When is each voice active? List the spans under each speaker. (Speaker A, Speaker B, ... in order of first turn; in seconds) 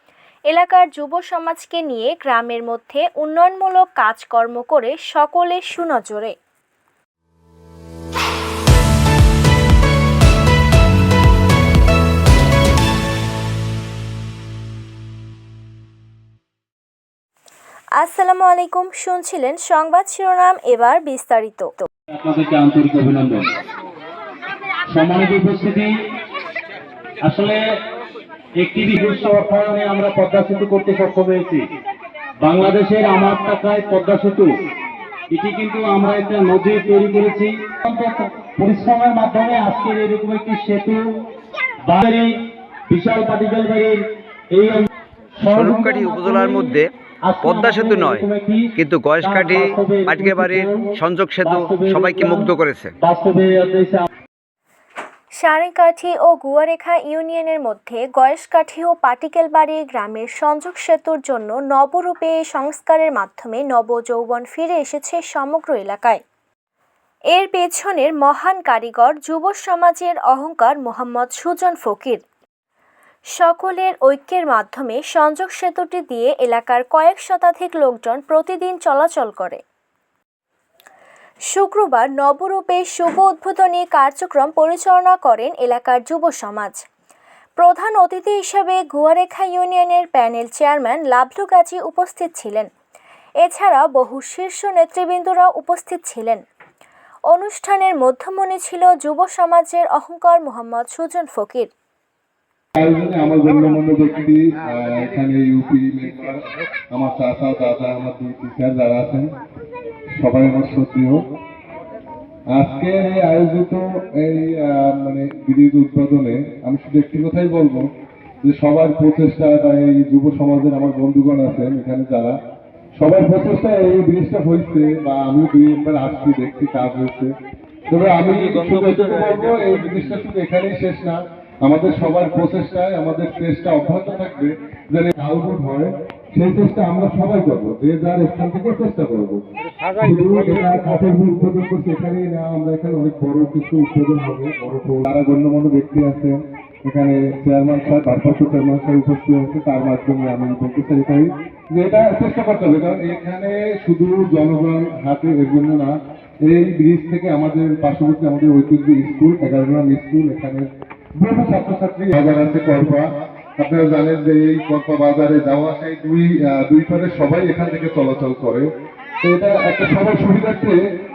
Speaker A: 0.5-6.3, 17.9-21.9, 55.4-66.2, 67.3-72.2, 73.4-79.6, 81.5-86.8, 87.6-92.7, 93.4-96.4, 97.3-101.7
Speaker B: 22.1-23.5, 24.9-25.9, 27.2-27.6, 28.6-31.6, 32.4-34.5, 35.3-41.0, 41.9-42.3, 42.9-44.0, 44.5-44.9, 45.4-50.9, 51.4-54.0
Speaker C: 45.5-46.9, 47.4-48.2, 48.8-52.9, 128.3-130.1
Speaker D: 102.8-106.4, 106.9-109.3, 110.2-111.2, 112.5-117.9, 118.4-122.4, 123.0-127.3, 127.9-139.4, 140.0-163.1, 163.6-168.7, 169.2-170.8